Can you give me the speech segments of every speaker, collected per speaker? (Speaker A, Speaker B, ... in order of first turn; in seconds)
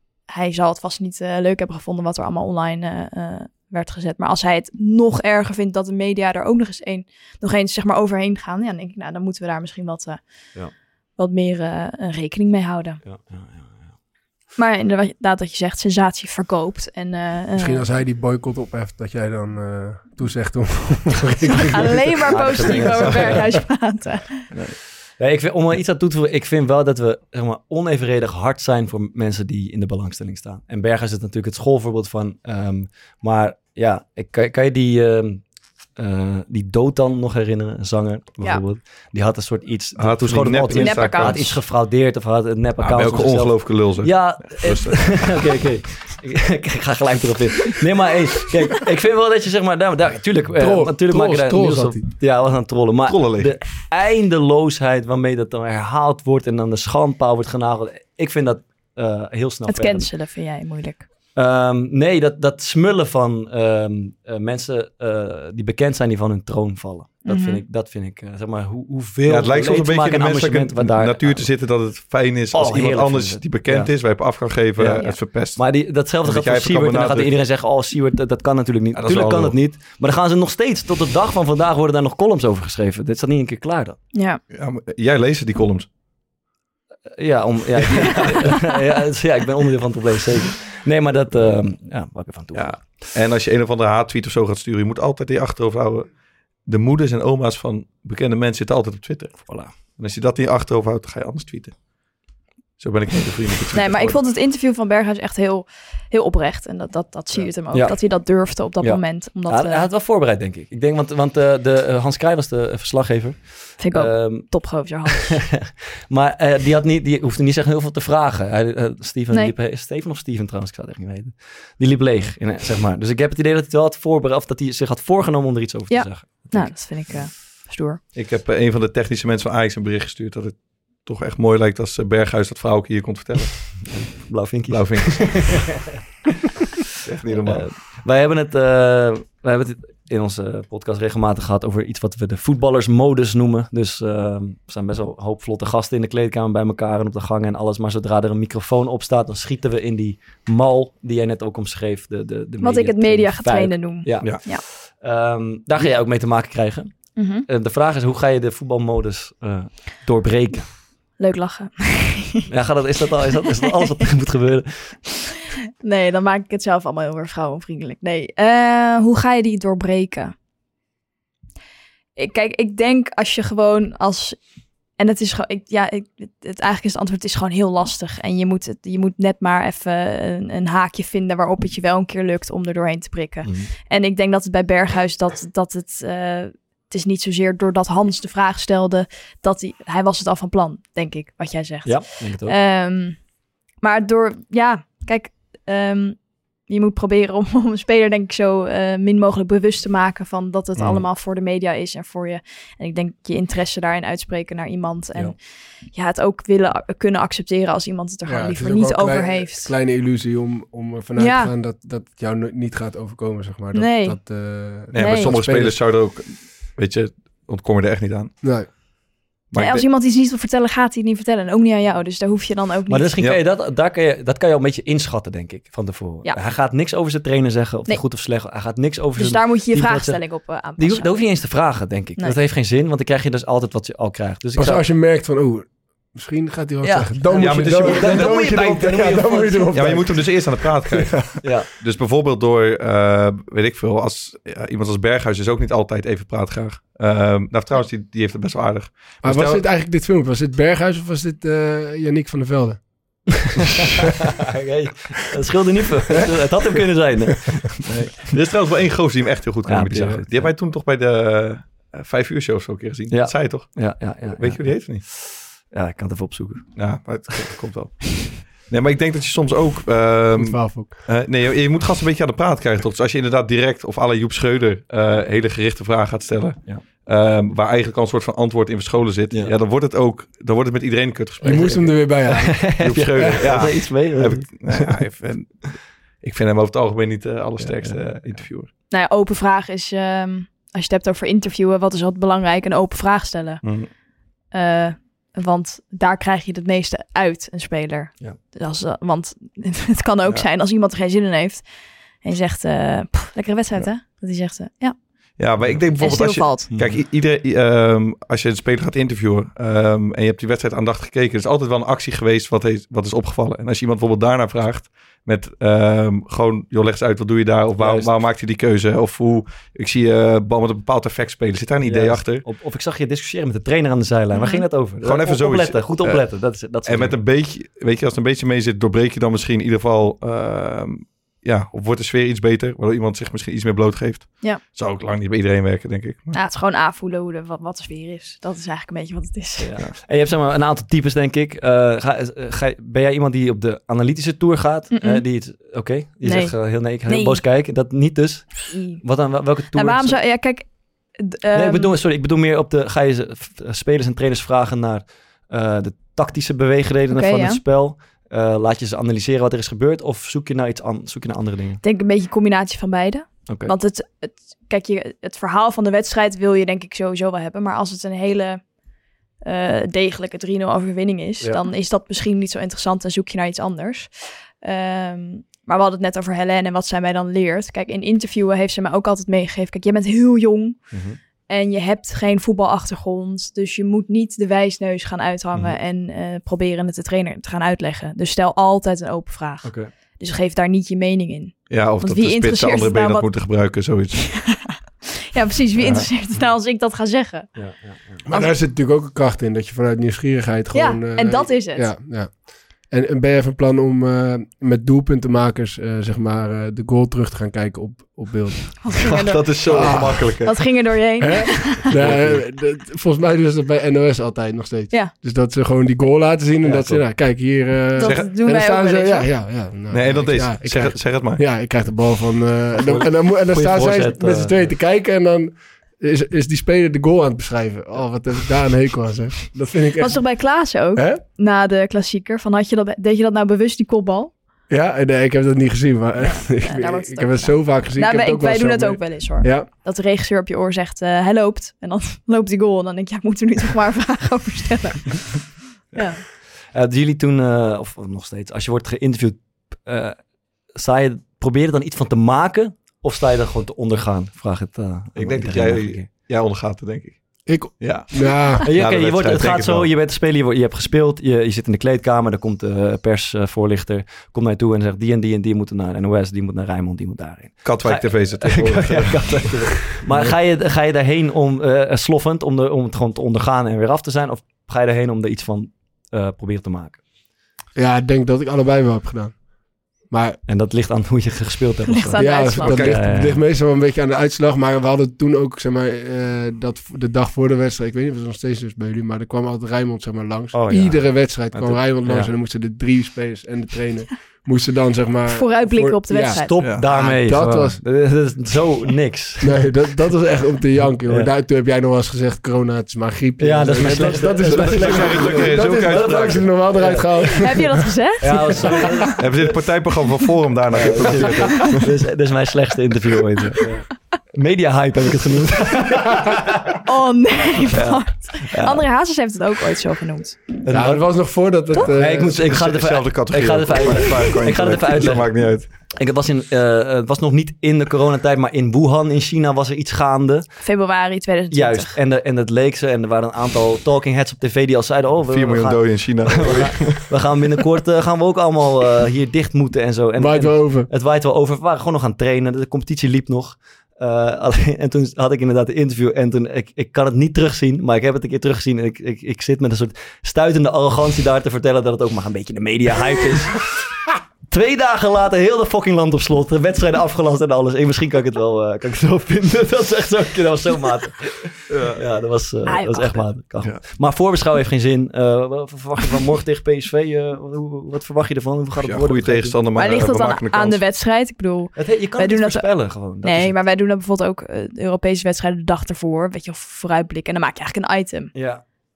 Speaker A: 0.3-10.2, 11.2-13.0, 14.6-17.8, 21.6-24.4, 40.7-41.5, 59.7-61.0, 67.2-67.6, 84.1-84.4, 103.7-109.9, 113.8-115.4, 125.9-128.0, 152.6-154.6, 157.2-157.4, 161.2-162.4, 165.8-170.3, 172.2-174.4, 175.0-193.2, 193.8-205.3, 205.9-209.7, 211.2-211.5, 213.7-214.2, 214.9-215.3, 219.6-223.1, 229.2-231.1, 288.9-293.6, 294.5-301.6, 302.2-305.0, 306.0-306.7, 324.3-324.6, 336.3-339.7, 344.9-345.2, 346.2-347.4, 348.7-349.0, 349.7-350.7, 351.2-352.0, 357.1-357.6, 361.8-368.6, 369.4-380.8, 381.5-393.3, 394.2-397.5, 398.3-398.5, 400.7-401.9, 408.8-411.9, 417.9-419.3, 430.0-434.3, 436.2-446.2, 481.9-482.9, 495.3-496.6, 507.4-509.1, 516.8-520.4, 530.6-532.0, 562.7-563.3, 569.7-578.3
Speaker B: 13.0-13.9, 22.2-23.5, 24.5-35.4, 36.0-60.1, 61.3-71.5, 72.5-73.9, 74.8-75.0, 75.5-84.0, 87.2-93.1, 99.5-99.7, 107.7-114.7, 115.2-115.5, 116.1-127.2, 133.9-135.9, 137.4-160.7, 162.5-165.0, 183.4-183.7, 191.8-192.5, 222.9-234.8, 236.8-240.0, 241.4-241.7, 253.6-258.2, 259.7-260.5, 263.1-266.7, 282.4-285.0, 287.6-288.4, 306.7-307.0, 317.8-318.1, 321.8-327.1, 339.6-350.2, 351.5-361.8, 363.5-363.7, 380.9-381.2, 389.6-389.9, 397.6-398.2, 416.6-417.0, 422.9-424.6, 446.7-450.2, 450.7-456.1, 458.6-477.0, 480.5-483.4, 490.5-492.3, 496.3-499.7, 503.4-507.4, 508.2-509.5, 510.7-516.7, 517.7-518.8, 520.6-521.0, 521.8-530.5, 531.5-553.9, 554.5-569.6, 571.8-573.5, 578.3-578.6
Speaker C: 17.6-22.8, 50.6-52.0, 208.2-215.8, 218.4-218.7, 234.6-241.2, 249.2-252.8, 270.3-271.0, 281.4-283.7, 398.3-408.9, 409.6-410.4, 411.2-430.2, 430.9-431.2, 434.7-439.7, 457.4-458.6, 477.8-479.4, 480.0-480.4, 482.1-497.8, 499.4-507.8, 508.6-508.8, 520.7-522.5, 540.1-540.9
Speaker D: 40.0-41.6, 42.8-45.4, 53.1-53.7, 69.2-77.3, 78.9-79.5, 84.5-85.9, 92.5-101.8, 102.8-104.2, 128.1-133.9, 134.7-135.8, 137.0-137.7, 214.9-218.3, 219.5-219.8, 237.3-239.1, 239.7-249.6, 257.8-265.0, 266.8-282.1, 282.8-288.7, 293.6-293.9, 305.4-322.4, 325.0-336.3, 391.7-394.3, 395.8-396.1, 409.0-410.7, 411.9-412.4, 418.0-418.3, 419.9-421.4, 455.2-459.9, 467.6-469.8, 503.9-506.4, 509.2-511.8, 522.2-525.7, 535.3-537.1, 561.7-562.0, 568.8-570.8